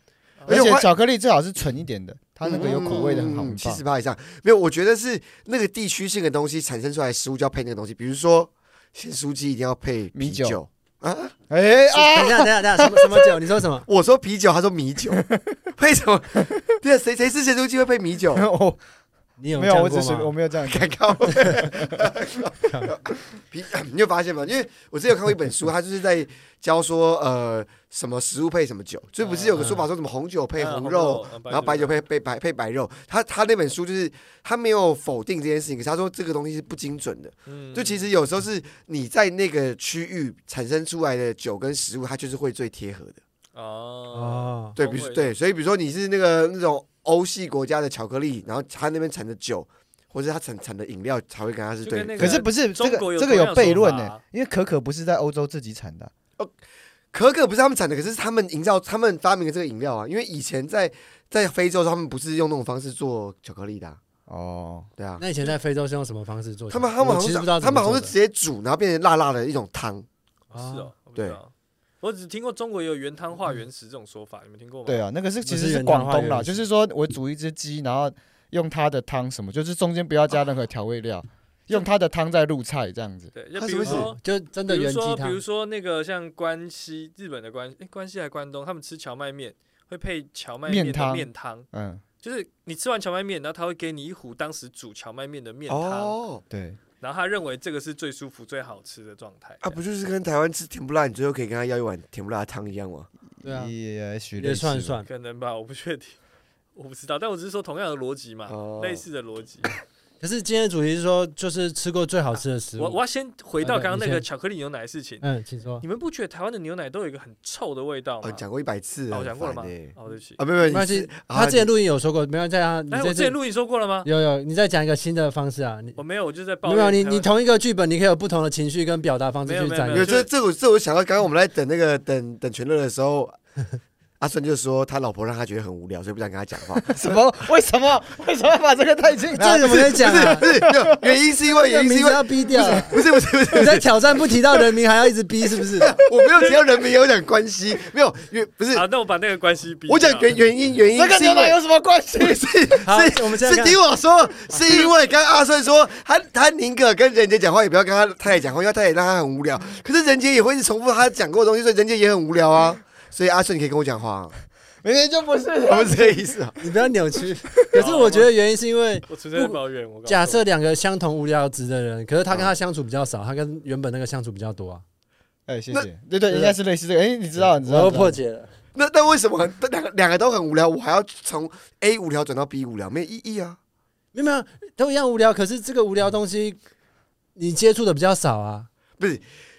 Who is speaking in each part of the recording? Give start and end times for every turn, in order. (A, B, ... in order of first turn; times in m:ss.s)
0:00.4-0:00.7 A
0:00.5-0:00.9 B
0:00.5-0:03.8 C
0:02.4-0:11.3 B
0:10.1-0:10.6 C
0:11.5-0:13.3 C
0:11.9-0:13.9 D
0:13.9-0:15.2 B
0:15.1-0:15.6 C
0:15.8-0:18.5 B
0:18.3-0:18.8 C
0:19.4-0:20.3 D
0:19.5-0:22.1 C
0:20.6-0:43.2 B
0:21.3-0:21.7 D
0:22.6-0:23.0 D
0:29.2-0:29.9 D
0:30.6-0:32.0 A
0:37.5-0:38.1 A
0:43.5-0:45.4 A
0:44.1-0:44.8 D
0:44.8-0:52.4 B
0:51.8-0:54.2 A
0:52.2-0:56.1 C
0:57.1-1:04.0 B
1:04.3-1:04.9 C
1:05.0-1:05.2 B
1:05.2-1:08.1 D
1:06.7-1:10.1 B
1:10.5-1:10.9 D
1:10.6-1:15.0 A
1:14.9-1:23.3 C
1:15.4-1:16.6 D
1:23.4-1:31.7 A
1:23.6-1:24.1 B
1:23.8-1:25.4 D
1:30.7-1:32.0 C
1:32.2-1:36.2 A
1:35.7-1:36.4 B
1:36.5-1:36.8 C
1:37.0-1:39.8 A
1:39.6-1:43.1 B
1:43.4-1:45.0 C
1:43.4-1:43.7 D
1:44.4-1:45.1 D
1:45.1-1:46.2 A
1:46.8-1:49.8 A
1:48.5-1:49.0 B
1:50.2-1:53.0 D
1:52.8-1:55.2 A
1:53.6-1:54.2 D
1:55.2-1:55.8 D
1:55.8-1:58.4 A
1:58.2-2:01.7 B
1:59.1-2:00.4 A
2:00.7-2:03.4 D
2:02.9-2:04.1 A
2:04.0-2:06.0 D
2:06.0-2:07.3 A
2:06.6-2:10.1 D
2:09.4-2:10.3 A
2:09.9-2:13.4 B
2:14.2-2:17.2 B
2:16.9-2:21.2 C
2:19.3-2:20.5 D
2:19.7-2:24.2 B
2:21.6-2:23.0 D
2:23.5-2:25.9 D
2:25.8-2:28.8 B
2:28.7-2:30.4 A
2:29.9-2:31.6 B
2:30.9-2:32.5 C
2:32.2-2:44.4 B
2:32.8-2:33.8 D
2:44.8-2:46.2 C
2:45.7-2:46.6 B
2:46.6-2:54.8 D
2:47.5-2:47.8 C
2:47.8-2:48.3 A
2:49.1-2:50.4 A
2:55.5-2:58.2 C
2:56.3-2:56.6 D
2:57.4-2:58.5 D
2:58.8-3:03.6 B
3:04.1-3:06.6 D
3:07.4-3:08.7 D
3:09.0-3:09.2 B